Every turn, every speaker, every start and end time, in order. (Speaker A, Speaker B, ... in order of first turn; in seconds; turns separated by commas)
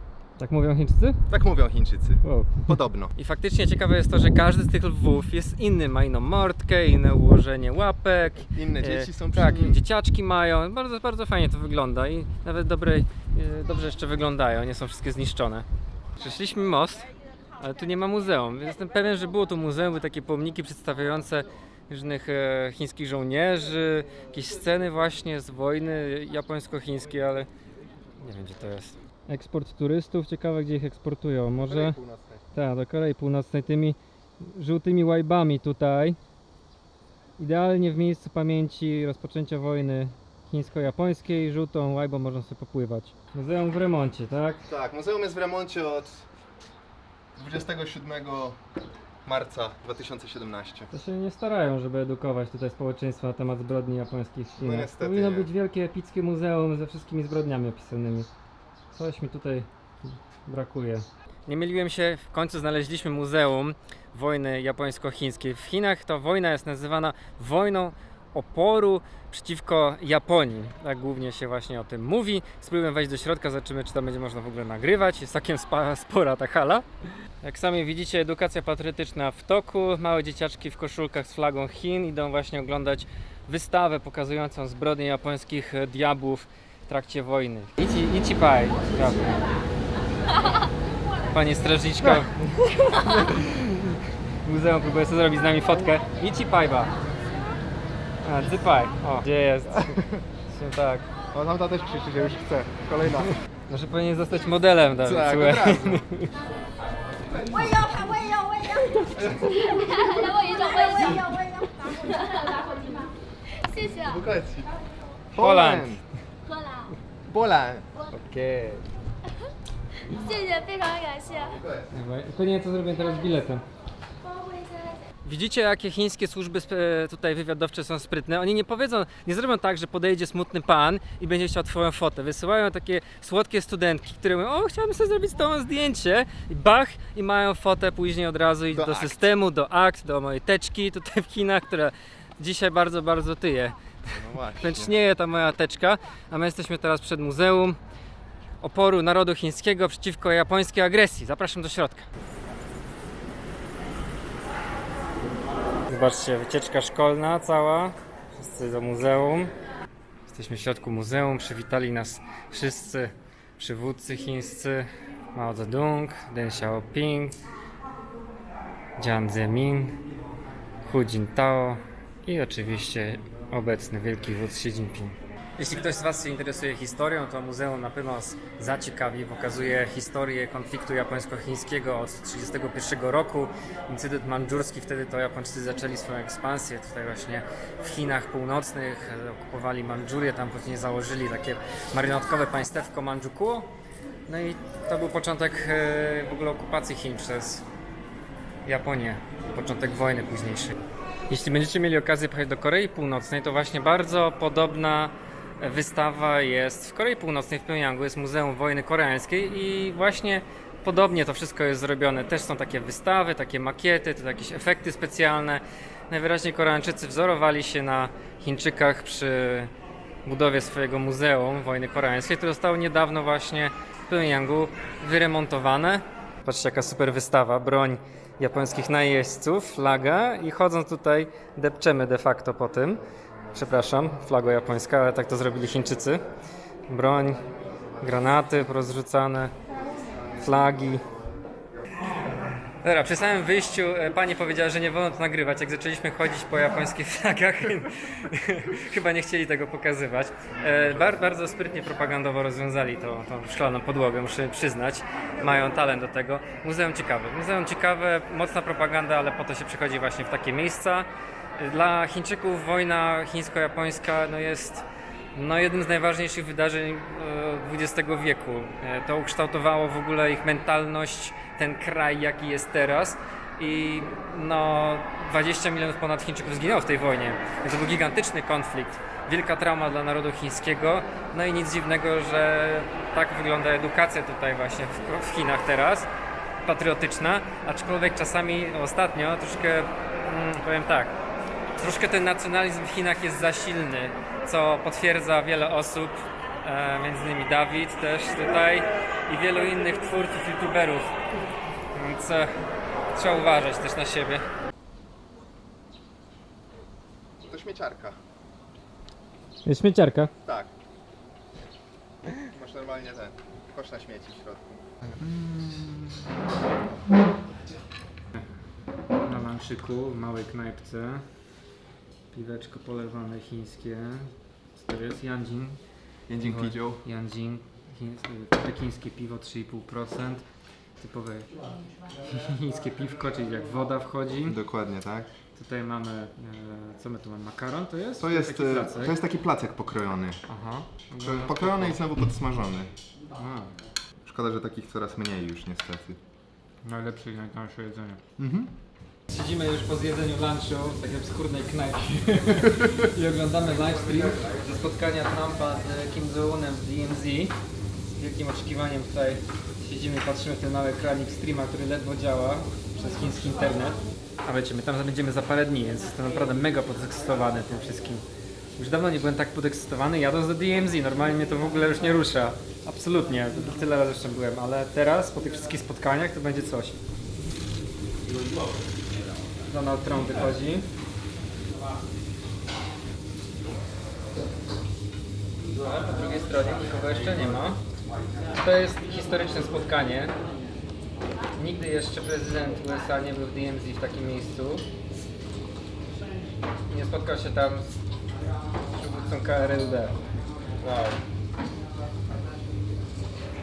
Speaker A: 0.4-1.2, Speaker B: 1.3-3.1, Speaker A: 2.2-27.5, Speaker B: 8.5-9.8, Speaker A: 28.2-32.0, Speaker B: 31.6-32.4, Speaker A: 32.5-36.2, Speaker A: 37.4-44.6, Speaker B: 44.6-46.2, Speaker B: 47.4-48.6, Speaker B: 49.2-50.9, Speaker A: 50.9-58.3, Speaker B: 54.6-55.5, Speaker A: 58.9-76.8, Speaker A: 77.4-89.4, Speaker A: 91.3-96.9, Speaker A: 98.2-101.1, Speaker B: 99.7-100.2, Speaker B: 101.3-103.3, Speaker A: 103.7-106.3, Speaker B: 105.0-106.0, Speaker C: 107.6-109.0, Speaker B: 109.1-110.0, Speaker C: 109.7-114.2, Speaker B: 114.0-114.7, Speaker B: 115.3-116.0, Speaker A: 115.4-116.0, Speaker C: 116.5-116.9, Speaker B: 117.3-117.8, Speaker A: 118.1-118.8, Speaker C: 120.1-121.5, Speaker B: 121.4-121.9, Speaker A: 121.9-123.6, Speaker C: 124.2-125.0, Speaker A: 125.2-143.8, Speaker B: 138.7-139.2, Speaker B: 144.1-145.0, Speaker A: 144.6-147.8, Speaker A: 148.6-152.1, Speaker A: 155.9-159.5, Speaker A: 160.3-167.4, Speaker A: 169.0-170.0, Speaker A: 170.8-193.7, Speaker A: 194.3-197.6, Speaker A: 198.6-200.8, Speaker A: 201.3-219.7, Speaker A: 220.2-233.0, Speaker A: 233.5-236.2, Speaker A: 236.9-237.4, Speaker A: 238.0-239.5, Speaker A: 240.3-241.0, Speaker A: 242.8-286.1, Speaker A: 286.6-291.1, Speaker A: 291.8-301.1, Speaker A: 301.9-302.5, Speaker A: 303.1-304.4, Speaker B: 307.4-308.2, Speaker A: 309.6-310.3, Speaker B: 310.4-310.7, Speaker B: 312.4-314.8, Speaker A: 315.1-316.2, Speaker A: 319.2-321.2, Speaker A: 322.3-325.8, Speaker B: 326.3-327.0, Speaker A: 326.4-330.4, Speaker A: 331.0-331.5, Speaker A: 332.3-334.6, Speaker B: 334.4-335.3, Speaker A: 335.5-339.2, Speaker B: 338.2-340.4, Speaker A: 340.5-342.0, Speaker B: 341.2-342.9, Speaker A: 343.3-343.8, Speaker B: 344.2-346.2, Speaker A: 346.8-348.2, Speaker B: 348.4-348.7, Speaker A: 349.3-357.5, Speaker A: 358.1-368.2, Speaker A: 368.8-377.0, Speaker A: 379.7-380.9, Speaker A: 385.8-387.8, Speaker A: 388.5-390.3, Speaker A: 391.6-394.9, Speaker A: 396.9-397.9, Speaker A: 398.9-400.1, Speaker A: 400.8-401.2